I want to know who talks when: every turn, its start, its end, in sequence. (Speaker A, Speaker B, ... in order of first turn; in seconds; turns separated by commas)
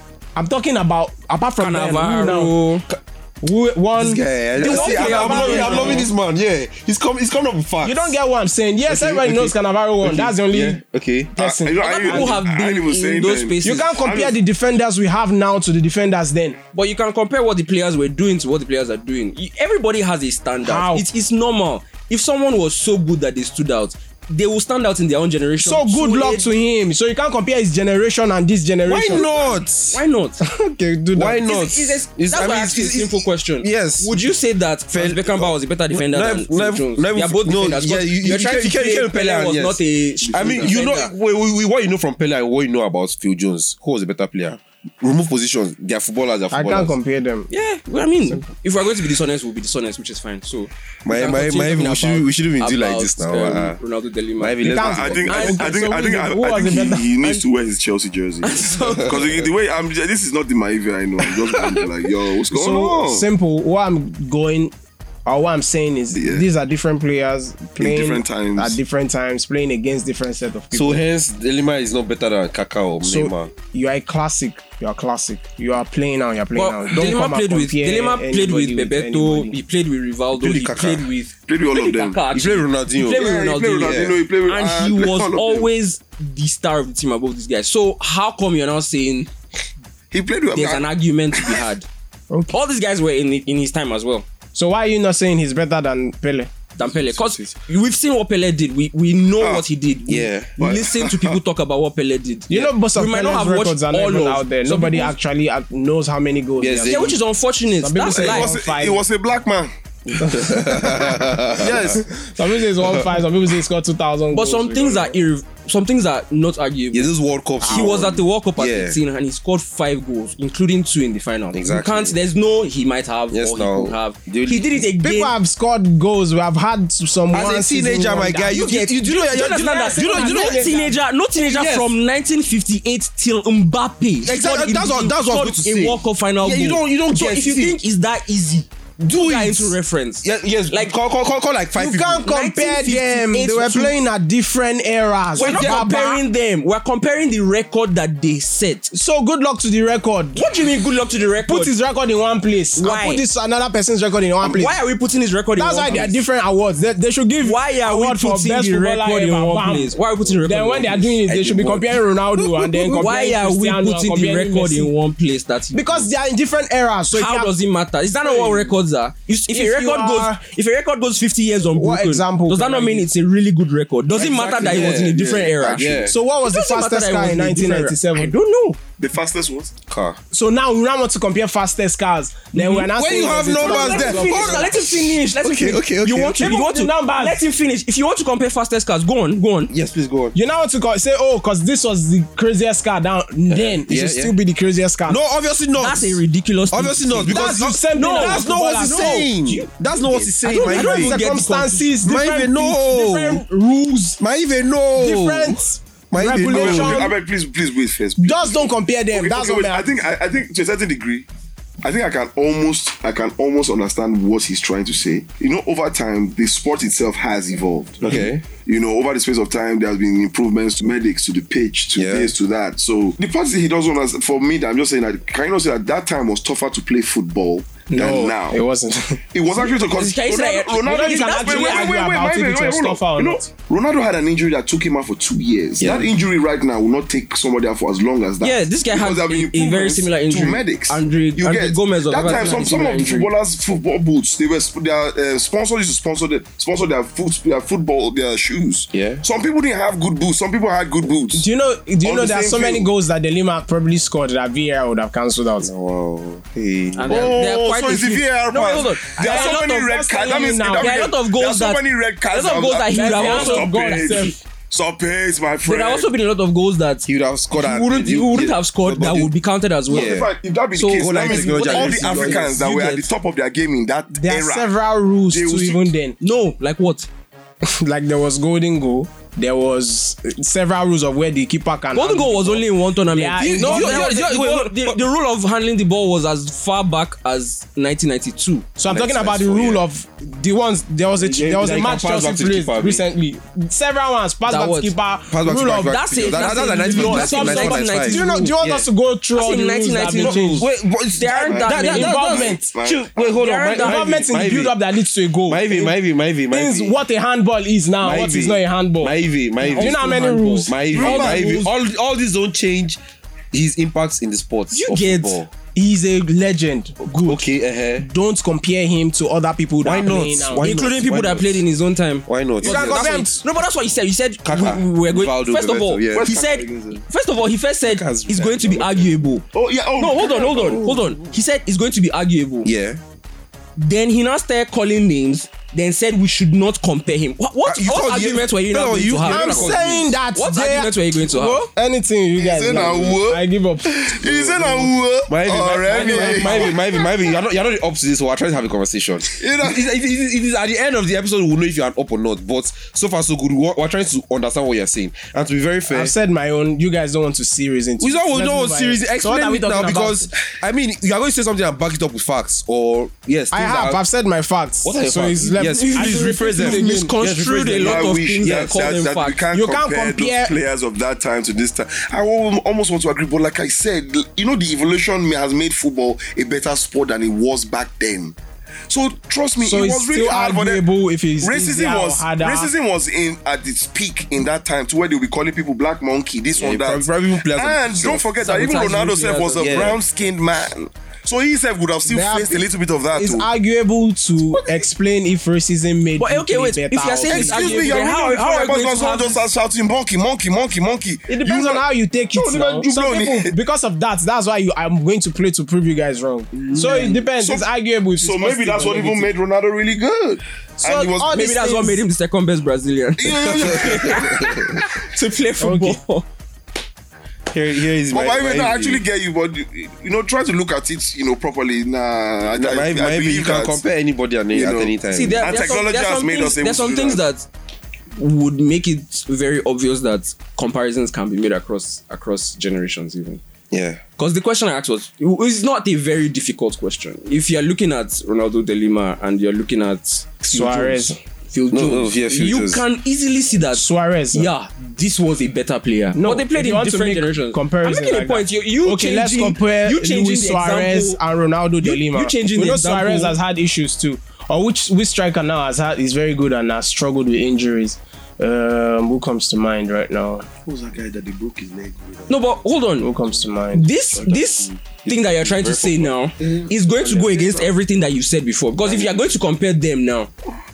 Speaker A: 0.3-2.5, Speaker B: 1.6-2.8, Speaker A: 3.4-6.1, Speaker C: 3.9-8.2, Speaker B: 4.6-6.1, Speaker A: 7.8-10.8, Speaker C: 8.8-11.3, Speaker A: 11.3-12.4, Speaker D: 11.4-14.4, Speaker B: 11.8-14.0, Speaker A: 13.6-16.6, Speaker B: 16.7-26.5, Speaker A: 20.6-21.1, Speaker A: 25.6-29.6, Speaker C: 28.9-30.0, Speaker B: 29.9-30.4, Speaker A: 30.4-31.4, Speaker C: 31.1-34.2, Speaker B: 31.4-41.1, Speaker C: 34.9-47.0, Speaker D: 40.3-40.8, Speaker A: 46.5-47.5, Speaker B: 47.5-55.6, Speaker C: 51.0-53.8, Speaker C: 54.4-55.3, Speaker A: 54.6-57.0, Speaker D: 54.8-63.3, Speaker B: 58.4-59.4, Speaker C: 61.2-61.9, Speaker A: 62.5-64.7, Speaker A: 65.2-71.0, Speaker D: 66.1-66.5, Speaker D: 67.8-68.8, Speaker C: 70.7-73.5, Speaker A: 73.0-79.5, Speaker B: 76.5-89.3, Speaker C: 80.3-81.1, Speaker D: 81.5-82.2, Speaker C: 82.3-84.2, Speaker D: 83.1-85.7, Speaker D: 90.1-91.6, Speaker B: 90.5-91.9, Speaker A: 92.3-92.5, Speaker B: 92.5-94.2, Speaker A: 94.5-96.5, Speaker B: 96.8-105.1, Speaker C: 97.1-97.5, Speaker D: 99.4-99.6, Speaker C: 100.1-100.5, Speaker D: 100.6-101.4, Speaker A: 102.5-107.2, Speaker C: 106.6-107.2, Speaker B: 106.9-108.5, Speaker A: 107.7-109.0, Speaker D: 108.1-109.7, Speaker C: 110.1-112.0, Speaker A: 110.3-111.1, Speaker D: 111.6-112.0, Speaker A: 111.6-115.2, Speaker C: 112.8-113.2, Speaker B: 114.3-125.3, Speaker C: 116.9-119.0, Speaker A: 117.6-118.0, Speaker C: 121.5-122.2, Speaker C: 123.3-124.8, Speaker A: 125.0-128.6, Speaker C: 127.3-130.5, Speaker B: 128.5-140.9, Speaker A: 129.3-131.0, Speaker C: 131.4-131.9, Speaker C: 134.2-137.8, Speaker C: 139.0-142.3, Speaker A: 141.8-146.2, Speaker B: 142.2-144.0, Speaker B: 145.3-148.9, Speaker C: 145.3-145.8, Speaker A: 148.9-150.4, Speaker B: 150.3-151.7, Speaker A: 151.4-154.8, Speaker B: 152.8-153.2, Speaker B: 154.4-156.2, Speaker A: 155.6-164.9, Speaker B: 157.4-161.2, Speaker C: 161.2-161.9, Speaker B: 162.8-166.1, Speaker A: 165.7-167.5, Speaker B: 167.1-178.8, Speaker A: 168.2-168.7, Speaker A: 169.5-170.4, Speaker A: 171.7-173.1, Speaker D: 174.1-176.1, Speaker C: 174.5-176.2, Speaker A: 176.1-178.3, Speaker D: 179.0-179.7, Speaker C: 179.9-180.2, Speaker A: 180.3-184.8, Speaker B: 182.5-182.9, Speaker C: 182.5-186.6, Speaker B: 183.6-189.7, Speaker A: 186.4-187.4, Speaker C: 189.7-190.3, Speaker A: 190.3-195.2, Speaker C: 193.5-194.3, Speaker C: 195.1-201.4, Speaker B: 195.8-201.9, Speaker A: 197.3-199.3, Speaker A: 200.4-204.2, Speaker C: 202.0-203.4, Speaker C: 204.2-207.1, Speaker A: 204.9-207.2, Speaker D: 206.4-211.3, Speaker A: 208.2-209.9, Speaker D: 211.8-228.6, Speaker C: 218.0-218.4, Speaker C: 221.9-222.3, Speaker A: 227.9-229.2, Speaker D: 229.3-251.5, Speaker B: 229.9-232.0, Speaker A: 230.8-233.5, Speaker C: 235.8-236.1, Speaker B: 238.4-243.3, Speaker C: 248.9-249.2, Speaker A: 251.3-255.7, Speaker D: 252.0-252.9, Speaker C: 255.6-257.4, Speaker B: 256.9-259.8, Speaker D: 257.1-266.1, Speaker A: 259.2-261.1, Speaker B: 260.7-264.3, Speaker A: 262.9-264.4, Speaker B: 265.6-270.2, Speaker C: 267.1-269.3, Speaker C: 269.9-270.3, Speaker D: 269.9-274.7, Speaker B: 270.7-273.1, Speaker C: 270.9-272.5, Speaker A: 274.1-276.2, Speaker D: 275.3-275.9, Speaker B: 276.2-277.1, Speaker A: 277.6-284.5, Speaker B: 281.9-289.4, Speaker C: 283.4-285.0, Speaker A: 288.8-300.7, Speaker C: 288.9-289.8, Speaker C: 291.1-293.0, Speaker B: 294.4-294.9, Speaker C: 295.3-298.9, Speaker B: 295.8-298.6, Speaker B: 299.3-304.2, Speaker C: 300.0-304.8, Speaker D: 301.5-303.4, Speaker A: 301.7-302.7, Speaker A: 303.8-305.9, Speaker C: 305.4-306.9, Speaker A: 306.5-311.6, Speaker C: 308.0-313.0, Speaker B: 309.7-311.6, Speaker D: 310.9-311.6, Speaker C: 313.5-315.5, Speaker B: 314.7-315.4, Speaker A: 315.7-320.6, Speaker C: 317.1-318.1, Speaker C: 319.8-321.6, Speaker B: 320.6-329.4, Speaker C: 322.3-323.3, Speaker A: 322.6-323.4, Speaker C: 324.4-326.3, Speaker D: 326.1-327.0, Speaker C: 327.8-329.3, Speaker D: 329.5-331.0, Speaker B: 330.0-332.7, Speaker C: 332.6-333.0, Speaker B: 333.8-339.7, Speaker C: 337.6-340.2, Speaker A: 339.3-344.9, Speaker B: 340.3-341.7, Speaker D: 342.4-346.8, Speaker C: 345.3-356.1, Speaker B: 345.9-346.7, Speaker D: 349.3-349.9, Speaker A: 355.9-360.3, Speaker C: 358.0-364.0, Speaker A: 363.5-367.1, Speaker C: 364.8-368.9, Speaker B: 365.6-369.4, Speaker D: 367.8-378.4, Speaker A: 369.5-370.5, Speaker D: 378.9-380.9, Speaker A: 379.6-382.7, Speaker D: 381.4-393.5, Speaker C: 386.6-388.2, Speaker B: 388.4-389.9, Speaker C: 389.6-390.0, Speaker A: 392.1-397.9, Speaker D: 394.5-394.9, Speaker B: 396.2-399.4, Speaker D: 397.3-403.5, Speaker A: 401.3-409.3, Speaker B: 406.6-407.2, Speaker D: 406.7-411.5, Speaker A: 410.8-412.0, Speaker B: 411.3-416.2, Speaker D: 413.2-414.6, Speaker C: 413.7-414.7, Speaker A: 415.6-416.0, Speaker C: 417.5-419.0, Speaker D: 418.1-423.8, Speaker C: 422.5-425.6, Speaker D: 424.5-427.2, Speaker B: 425.1-427.5, Speaker B: 428.1-433.4, Speaker C: 433.7-434.0, Speaker B: 434.2-451.2, Speaker A: 440.4-441.2, Speaker C: 441.7-442.8, Speaker A: 443.7-444.5, Speaker A: 446.1-460.5, Speaker B: 451.8-453.4, Speaker D: 460.6-462.4, Speaker B: 462.3-463.1, Speaker A: 463.0-463.9, Speaker B: 463.7-470.3, Speaker D: 464.2-464.8, Speaker C: 464.2-466.5, Speaker D: 466.4-467.7